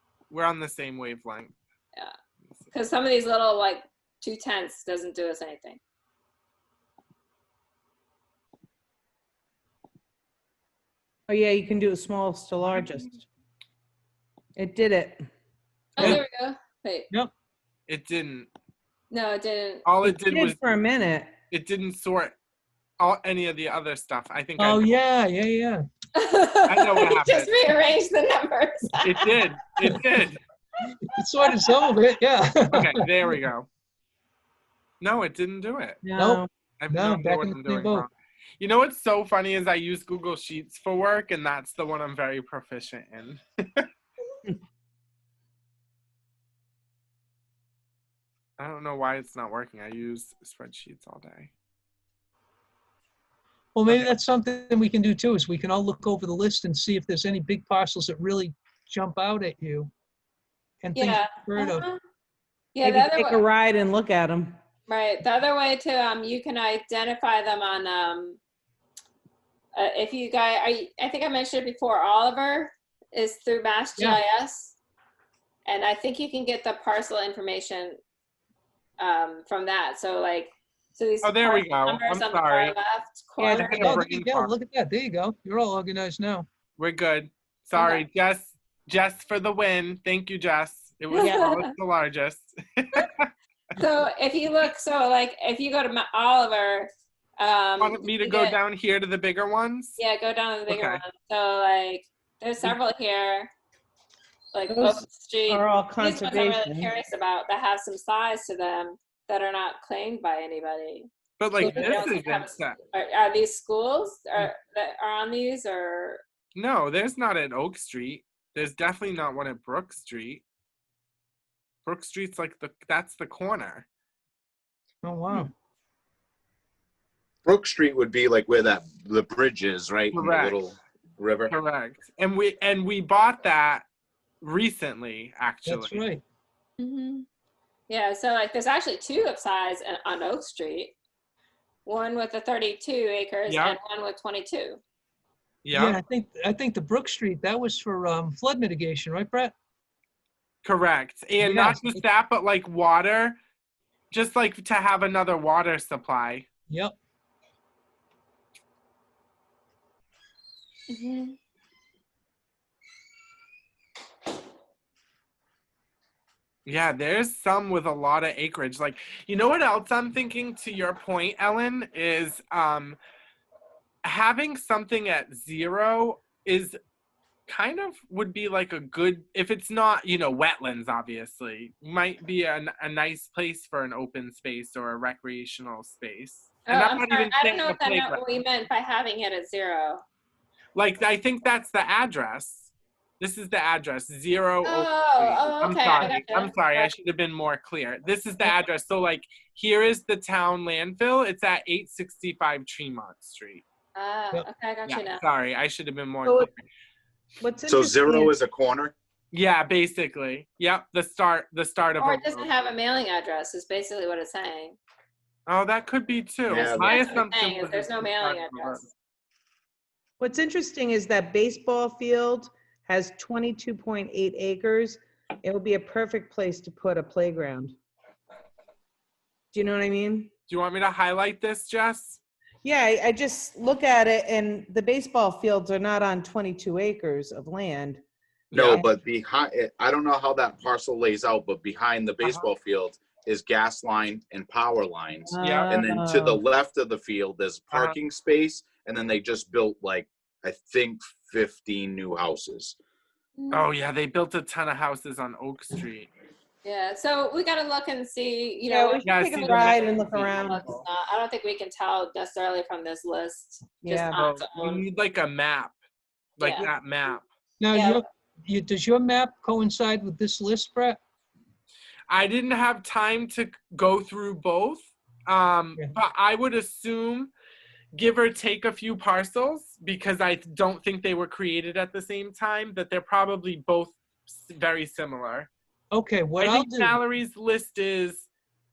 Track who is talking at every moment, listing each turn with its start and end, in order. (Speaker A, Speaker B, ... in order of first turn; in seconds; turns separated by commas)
Speaker A: 0.3-1.5, Speaker B: 2.7-5.8, Speaker C: 11.3-13.2, Speaker C: 14.6-15.3, Speaker B: 16.0-17.1, Speaker D: 16.0-16.2, Speaker A: 17.9-18.5, Speaker B: 19.1-19.9, Speaker A: 19.9-20.8, Speaker C: 20.0-21.3, Speaker A: 21.5-22.4, Speaker A: 23.0-24.9, Speaker D: 24.6-25.8, Speaker B: 26.1-29.3, Speaker A: 26.7-27.6, Speaker A: 29.0-30.4, Speaker D: 31.0-33.1, Speaker B: 31.4-31.9, Speaker A: 32.7-33.7, Speaker A: 35.0-36.0, Speaker C: 36.0-36.5, Speaker D: 36.2-38.1, Speaker A: 36.8-43.9, Speaker A: 48.6-51.5, Speaker D: 53.8-59.9, Speaker D: 60.8-61.9, Speaker B: 61.0-62.0, Speaker B: 62.7-63.4, Speaker C: 62.8-64.5, Speaker B: 64.9-68.4, Speaker B: 69.8-74.8, Speaker B: 75.7-78.0, Speaker B: 79.0-84.0, Speaker A: 81.2-82.8, Speaker D: 83.5-86.5, Speaker A: 83.5-84.5, Speaker A: 86.8-93.3, Speaker B: 87.7-88.0, Speaker B: 91.1-91.7, Speaker B: 93.8-98.6, Speaker A: 97.8-100.0, Speaker B: 100.0-103.5, Speaker A: 100.7-101.0, Speaker B: 104.5-116.2, Speaker C: 104.7-106.9, Speaker A: 111.4-112.8, Speaker C: 111.6-112.0, Speaker A: 116.5-120.4, Speaker A: 121.8-123.9, Speaker D: 125.0-125.5, Speaker E: 127.5-131.5, Speaker A: 130.1-130.6, Speaker A: 131.5-133.8, Speaker A: 134.4-136.0, Speaker D: 135.7-136.2, Speaker B: 136.8-137.3, Speaker B: 137.9-140.9, Speaker B: 141.8-144.8, Speaker A: 143.5-143.8, Speaker A: 145.6-146.0, Speaker D: 145.7-149.5, Speaker A: 150.6-153.4, Speaker D: 151.4-152.0, Speaker A: 154.1-156.5, Speaker D: 156.7-157.0, Speaker B: 160.9-161.4, Speaker A: 166.7-173.0, Speaker A: 174.0-176.8, Speaker A: 177.5-188.3, Speaker B: 186.7-190.0, Speaker A: 190.8-203.6, Speaker B: 194.6-196.9, Speaker B: 203.9-205.2, Speaker A: 204.9-206.7, Speaker C: 206.2-206.5, Speaker C: 207.4-208.3, Speaker E: 207.7-208.9, Speaker A: 209.3-212.5, Speaker B: 212.0-214.8, Speaker A: 215.5-218.9, Speaker E: 216.5-217.1, Speaker B: 216.8-218.9, Speaker C: 220.2-227.8, Speaker C: 229.5-230.3, Speaker A: 230.5-232.2, Speaker C: 232.6-238.0, Speaker A: 238.5-238.8, Speaker E: 238.5-252.8, Speaker A: 242.2-242.5, Speaker C: 245.3-246.4, Speaker A: 245.4-245.7, Speaker B: 253.4-253.7, Speaker A: 253.5-256.1, Speaker B: 256.6-264.9, Speaker C: 258.7-260.7, Speaker A: 259.0-260.9, Speaker C: 263.8-264.1, Speaker A: 264.1-265.8, Speaker A: 266.4-267.3, Speaker B: 266.4-266.7, Speaker D: 267.6-271.0, Speaker B: 267.7-268.0, Speaker A: 272.1-277.3, Speaker A: 277.9-285.5, Speaker D: 285.9-287.0, Speaker A: 286.4-288.3